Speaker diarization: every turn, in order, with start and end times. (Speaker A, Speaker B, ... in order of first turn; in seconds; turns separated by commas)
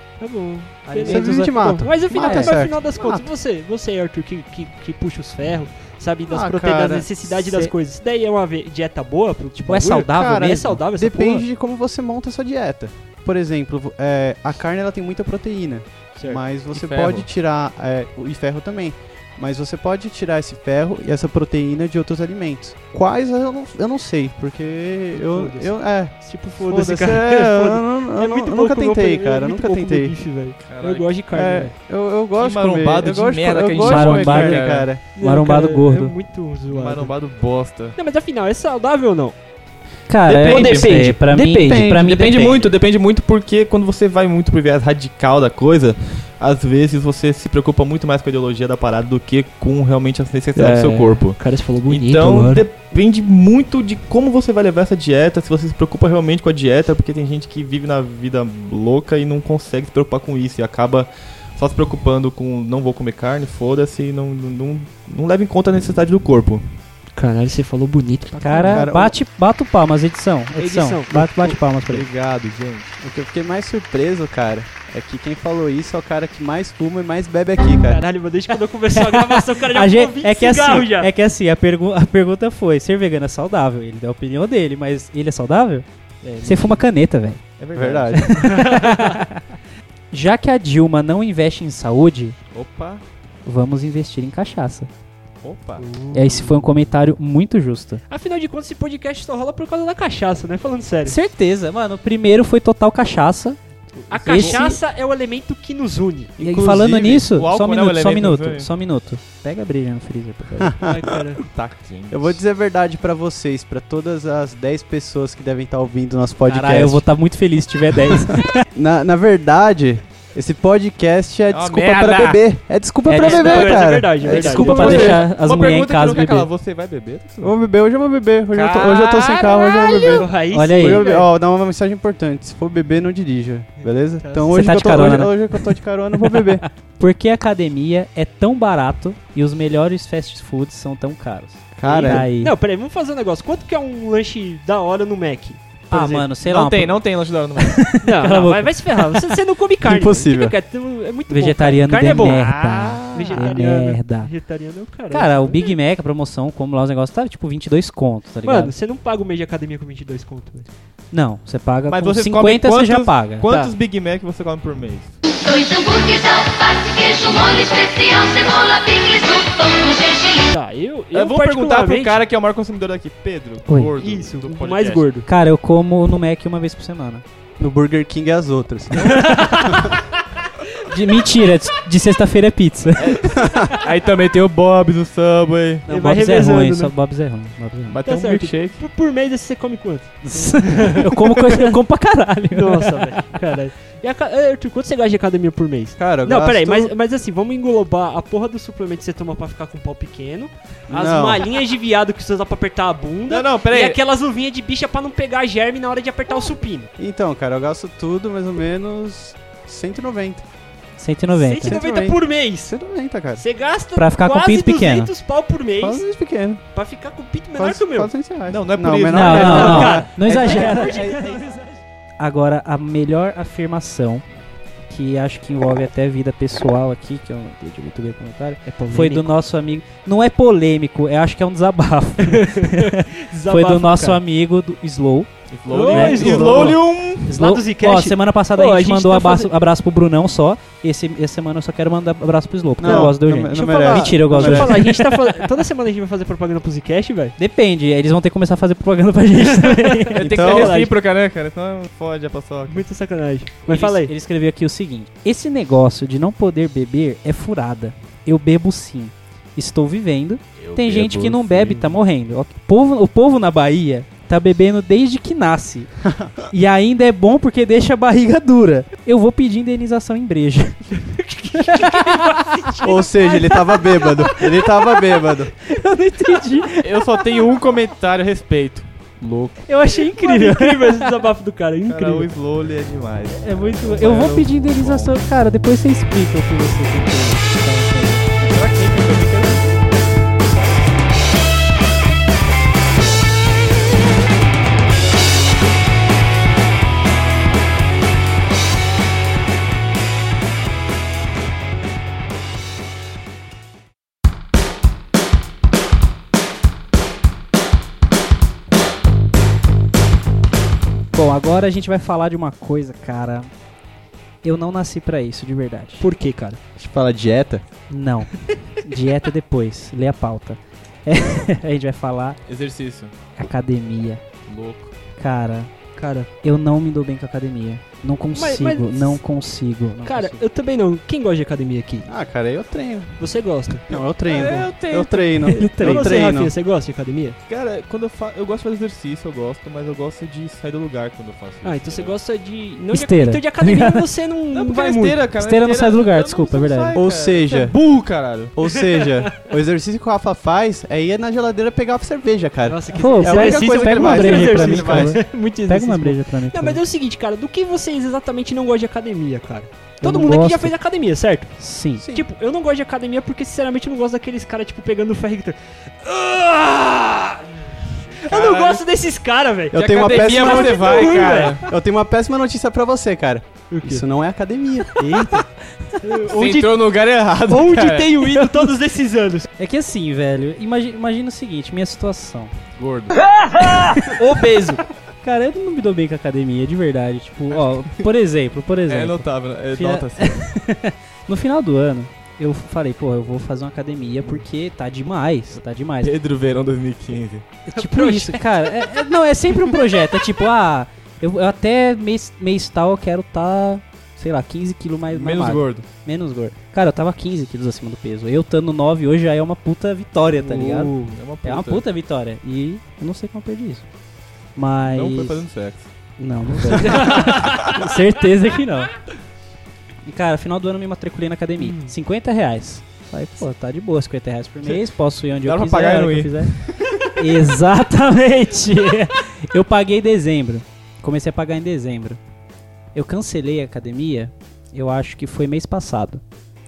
Speaker A: 0.2-11.4, Speaker B: 0.8-2.6, Speaker C: 1.1-3.3, Speaker C: 6.3-7.1, Speaker B: 7.3-7.7, Speaker B: 9.5-10.8, Speaker C: 10.9-30.1, Speaker D: 16.7-17.3, Speaker A: 25.2-31.7, Speaker D: 30.6-31.1, Speaker C: 31.3-35.0, Speaker D: 32.4-34.9, Speaker B: 33.8-34.6, Speaker A: 35.1-37.1, Speaker B: 35.2-36.1, Speaker D: 36.7-37.9, Speaker A: 38.0-39.4, Speaker B: 40.1-42.6, Speaker D: 40.3-40.9, Speaker A: 40.4-41.4, Speaker C: 41.6-42.0, Speaker D: 41.6-51.4, Speaker A: 50.5-52.6, Speaker D: 51.9-66.6, Speaker A: 67.2-68.8, Speaker B: 68.4-72.0, Speaker C: 68.7-69.1, Speaker A: 70.6-71.6, Speaker D: 71.8-72.9, Speaker C: 73.0-78.0, Speaker A: 77.8-81.1, Speaker B: 78.9-85.8, Speaker A: 86.2-86.8, Speaker B: 86.4-87.4, Speaker D: 87.6-88.2, Speaker C: 87.7-88.2, Speaker B: 88.2-89.4, Speaker A: 88.4-89.2, Speaker B: 90.1-92.3, Speaker D: 92.5-93.0, Speaker B: 93.4-94.9, Speaker D: 95.4-95.8, Speaker A: 95.8-96.6, Speaker B: 96.1-98.0, Speaker A: 98.1-101.2, Speaker B: 101.0-103.6, Speaker A: 104.1-106.3, Speaker D: 104.1-104.6, Speaker B: 104.2-104.8, Speaker B: 106.4-110.7, Speaker D: 106.4-108.7, Speaker C: 110.6-111.2, Speaker A: 110.8-111.4, Speaker D: 111.4-112.4, Speaker C: 112.1-117.0, Speaker B: 116.5-118.6, Speaker C: 118.7-125.2, Speaker D: 121.5-122.4, Speaker B: 123.1-123.6, Speaker A: 123.1-125.2, Speaker B: 124.2-126.5, Speaker D: 124.5-127.5, Speaker C: 127.4-136.6, Speaker D: 128.5-130.2, Speaker A: 129.4-131.3, Speaker B: 130.5-131.0, Speaker A: 134.2-134.5, Speaker B: 134.5-142.5, Speaker C: 141.8-142.2, Speaker A: 141.9-146.1, Speaker B: 145.9-147.0, Speaker D: 145.9-147.8, Speaker B: 147.6-149.2, Speaker A: 148.0-152.5, Speaker C: 149.8-150.6, Speaker B: 151.3-154.3, Speaker D: 152.1-153.4, Speaker A: 153.1-155.8, Speaker B: 155.1-158.7, Speaker A: 158.4-160.7, Speaker B: 161.1-163.7, Speaker D: 161.9-165.1, Speaker E: 165.4-170.5, Speaker A: 170.5-172.2, Speaker D: 171.1-175.1, Speaker B: 173.7-173.9, Speaker A: 173.9-175.3, Speaker B: 175.3-177.2, Speaker C: 177.6-179.9, Speaker D: 179.0-179.3, Speaker A: 179.1-179.9, Speaker B: 180.9-183.2, Speaker D: 183.0-185.8, Speaker C: 183.3-183.7, Speaker B: 185.9-188.0, Speaker A: 185.9-186.9, Speaker D: 187.9-188.8, Speaker A: 188.0-191.7, Speaker B: 190.2-193.1, Speaker A: 192.5-206.9, Speaker C: 196.0-196.9, Speaker C: 200.9-201.4, Speaker D: 203.3-204.0, Speaker C: 207.0-210.4, Speaker B: 211.0-211.8, Speaker A: 211.3-212.7, Speaker C: 211.6-213.4, Speaker A: 213.4-216.1, Speaker B: 213.9-215.1, Speaker C: 215.8-216.6, Speaker A: 216.7-218.1, Speaker C: 217.6-221.3, Speaker D: 218.5-221.1, Speaker B: 219.1-221.2, Speaker A: 219.2-221.7, Speaker B: 222.2-224.2, Speaker B: 224.9-235.3, Speaker A: 228.7-229.3, Speaker A: 232.2-234.2, Speaker D: 235.5-237.3, Speaker A: 235.7-239.5, Speaker B: 235.9-245.3, Speaker C: 242.8-244.8, Speaker A: 242.8-247.3, Speaker B: 247.4-250.2, Speaker A: 249.4-250.9, Speaker D: 250.2-252.8, Speaker C: 250.2-250.7, Speaker A: 252.7-254.1, Speaker B: 253.7-265.9, Speaker D: 260.6-262.0, Speaker C: 266.1-266.3, Speaker B: 266.5-270.9, Speaker A: 270.9-273.7, Speaker B: 271.6-272.7, Speaker C: 272.8-275.5, Speaker B: 274.3-274.7, Speaker B: 275.6-277.3, Speaker D: 276.8-279.6, Speaker B: 279.6-281.1, Speaker A: 279.8-282.3, Speaker D: 281.9-285.1, Speaker B: 283.4-288.2, Speaker D: 288.4-289.8, Speaker B: 311.1-313.5, Speaker B: 314.4-316.0, Speaker A: 316.0-316.6, Speaker C: 316.8-317.6, Speaker B: 317.9-318.3, Speaker B: 318.8-322.4, Speaker D: 322.5-323.1, Speaker B: 323.4-324.2, Speaker D: 324.5-324.9, Speaker B: 325.2-325.7, Speaker A: 325.9-326.3, Speaker B: 326.4-330.4, Speaker A: 328.3-329.2, Speaker A: 330.0-332.1, Speaker C: 332.1-333.1, Speaker A: 333.2-333.9, Speaker C: 333.9-336.5, Speaker D: 333.9-335.6, Speaker A: 335.5-337.4, Speaker D: 337.5-342.1, Speaker A: 341.6-345.2, Speaker B: 342.9-344.0, Speaker D: 344.5-348.5, Speaker B: 345.4-347.0, Speaker C: 346.9-347.8, Speaker C: 348.5-355.2, Speaker A: 348.9-349.2, Speaker A: 352.7-361.6, Speaker B: 352.9-356.8, Speaker B: 360.0-360.7, Speaker B: 361.6-362.0, Speaker C: 362.0-362.2, Speaker A: 362.1-367.6, Speaker A: 368.1-371.7, Speaker D: 368.3-368.8, Speaker C: 369.7-375.4, Speaker D: 369.7-371.6, Speaker A: 373.7-374.0, Speaker A: 376.0-376.9, Speaker D: 376.3-378.6, Speaker A: 377.5-379.5, Speaker B: 379.6-382.5, Speaker D: 382.8-383.2, Speaker A: 384.1-384.8, Speaker B: 385.2-396.1, Speaker D: 388.9-390.4, Speaker D: 396.0-397.4, Speaker A: 397.7-398.5, Speaker B: 397.7-413.8, Speaker D: 405.1-405.9, Speaker D: 410.4-411.8, Speaker B: 414.6-415.4, Speaker D: 414.9-415.9, Speaker B: 416.2-418.9, Speaker D: 416.5-417.8, Speaker A: 416.8-417.4, Speaker B: 420.0-426.5, Speaker A: 421.6-421.9, Speaker D: 425.4-427.0, Speaker B: 427.1-432.2, Speaker B: 432.9-436.2